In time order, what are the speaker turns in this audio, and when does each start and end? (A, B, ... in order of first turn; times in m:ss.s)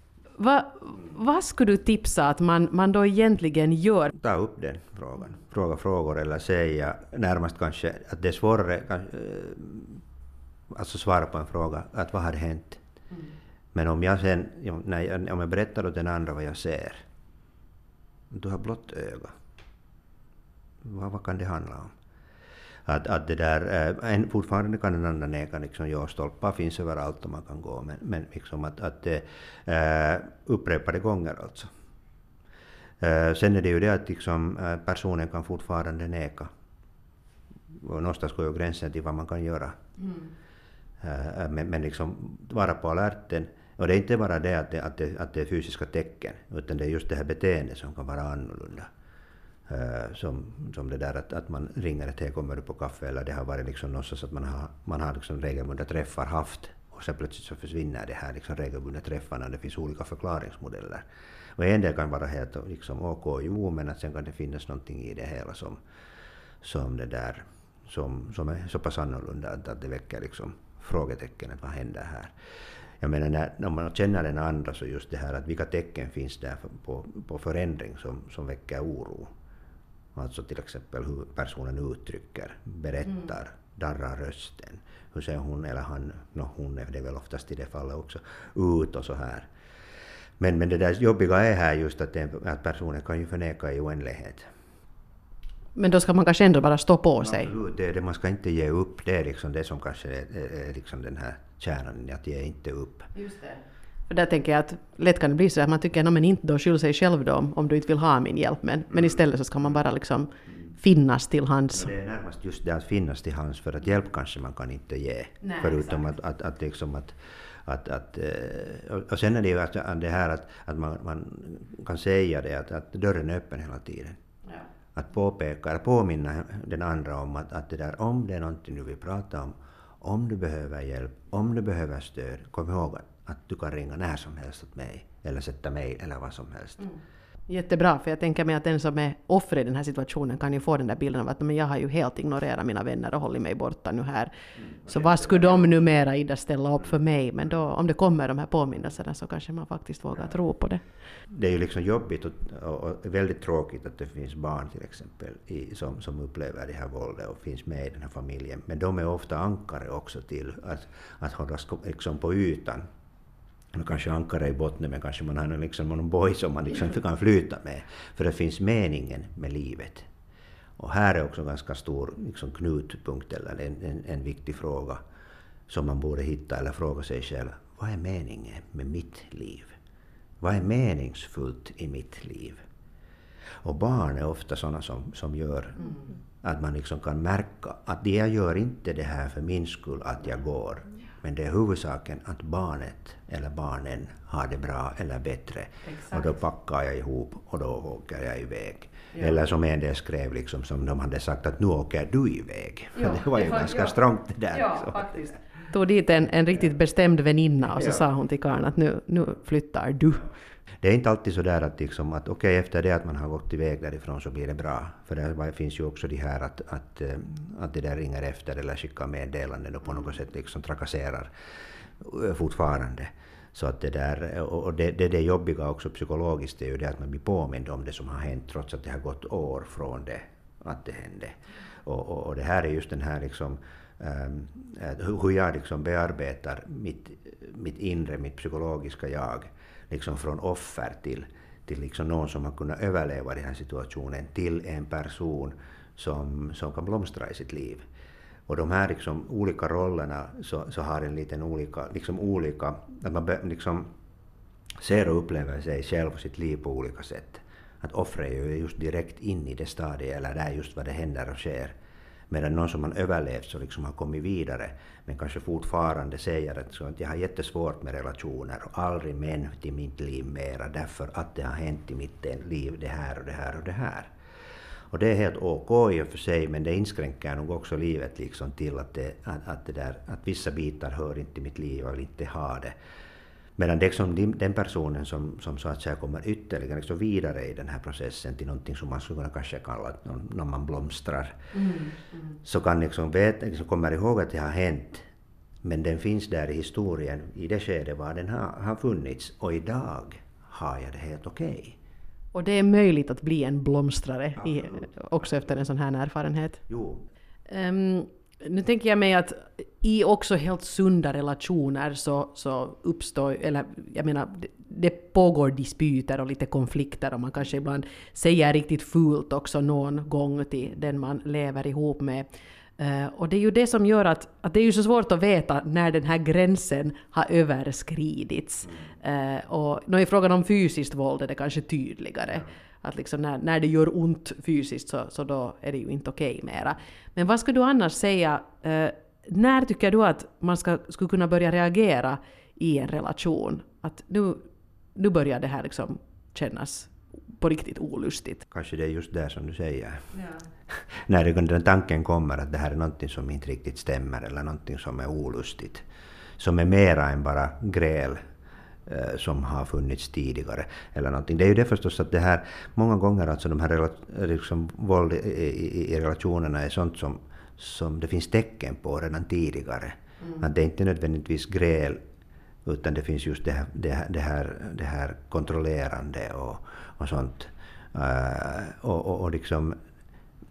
0:00.4-0:04.1 A
0:04.1-0:10.0 B
0:10.7-0:12.8 B
0:13.7-0:17.0 B
0:18.3-0:19.3 B
0:20.8-0:21.9 B
0:22.9-0:31.7 B
0:33.0-0:36.5 B
0:37.7-0:39.8 B
0:41.0-0:48.9 B
0:49.7-1:01.0 B
1:01.6-1:05.8 B
1:06.6-1:12.3 B
1:13.0-1:19.3 B
1:20.2-1:29.5 B
1:30.4-1:34.5 B
1:35.8-1:37.5 A
1:37.2-1:43.1 B
1:43.2-1:51.9 A
1:51.7-2:04.2 B
1:55.4-1:56.0 A
2:04.9-2:16.9 B
2:17.5-2:24.3 A
2:24.9-2:30.8 A
2:31.3-2:42.8 B
2:43.7-2:50.1 B
2:50.8-2:55.0 B
2:55.7-2:59.7 B
3:00.4-3:02.6 B
3:03.6-3:25.3 B
3:15.9-3:16.3 A
3:23.0-3:24.0 A
3:24.5-3:30.3 A
3:30.8-3:41.3 B
3:42.0-4:07.8 B
4:08.5-4:13.9 B
4:14.8-4:21.7 B
4:22.3-4:34.1 B
4:34.9-4:42.8 B
4:43.6-4:51.5 B
4:52.4-4:55.0 B
4:55.6-5:01.8 B
5:02.3-5:06.6 A
5:04.4-5:04.8 B
5:06.7-5:07.0 B
5:07.5-5:48.4 A
5:48.5-5:50.1 B
5:50.7-5:55.8 B
5:56.4-5:58.2 B
5:58.9-6:12.0 B
6:12.6-6:19.8 B